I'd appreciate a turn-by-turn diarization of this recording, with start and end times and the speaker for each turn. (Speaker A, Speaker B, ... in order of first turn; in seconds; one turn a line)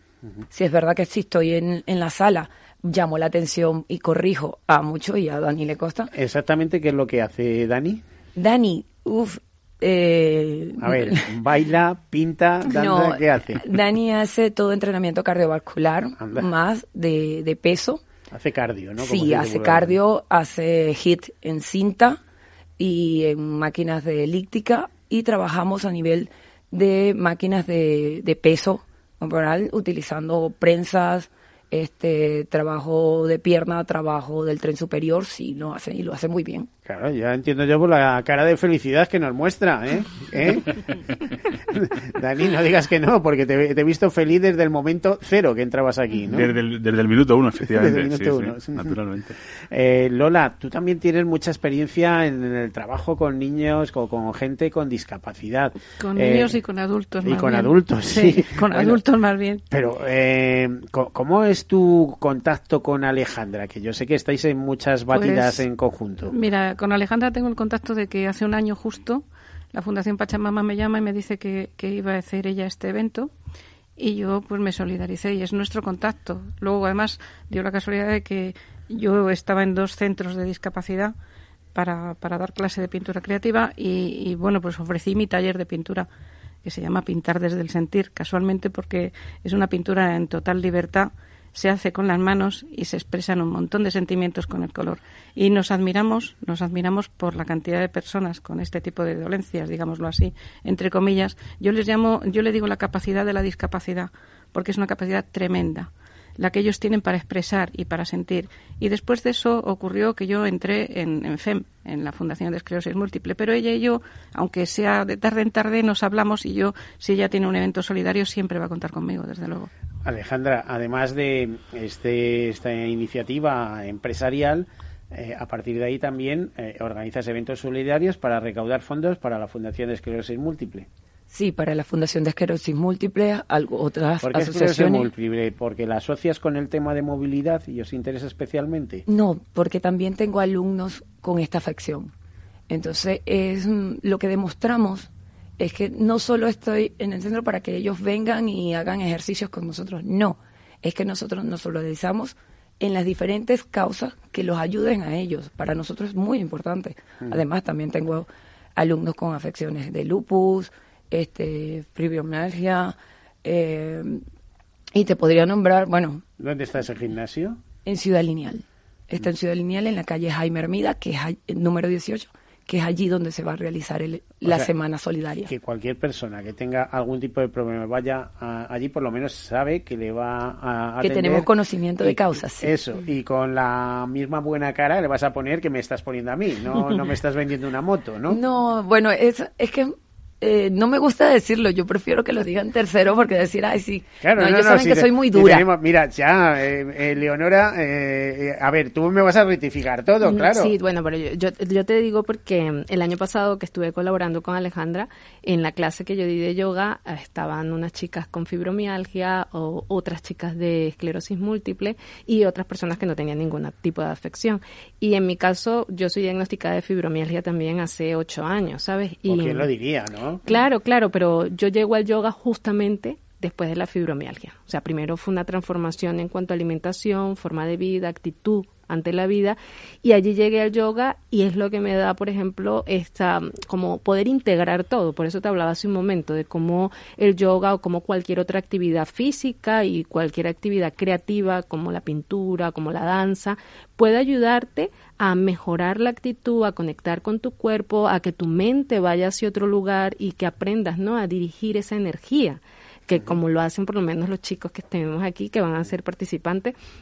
Speaker A: 0.5-6.1
Speaker B: 6.1-8.0
Speaker A: 8.4-11.3
Speaker B: 10.8-13.6
Speaker A: 12.7-18.0
Speaker B: 16.2-16.5
Speaker B: 18.3-20.0
Speaker A: 19.0-22.2
Speaker A: 22.8-36.7
Speaker B: 36.9-40.9
Speaker B: 41.7-46.5
Speaker C: 46.2-49.4
Speaker B: 47.7-48.9
Speaker B: 49.7-56.6
Speaker D: 56.0-59.6
Speaker B: 57.2-59.0
Speaker B: 59.7-66.3
Speaker D: 65.1-65.6
Speaker D: 66.3-73.3
Speaker D: 74.0-81.1
Speaker D: 81.7-86.1
Speaker D: 86.6-119.7
Speaker B: 120.0-130.9
Speaker A: 131.3-135.1
Speaker B: 134.2-139.1
Speaker A: 139.1-142.1
Speaker A: 142.7-164.2
Speaker A: 164.9-166.2
Speaker B: 166.4-167.6
Speaker A: 167.8-175.5
Speaker B: 174.4-174.7
Speaker B: 175.4-188.4
Speaker A: 181.0-182.7
Speaker A: 188.3-195.7
Speaker B: 194.2-200.7
Speaker E: 200.2-219.7
Speaker B: 219.2-220.4
Speaker E: 220.5-256.7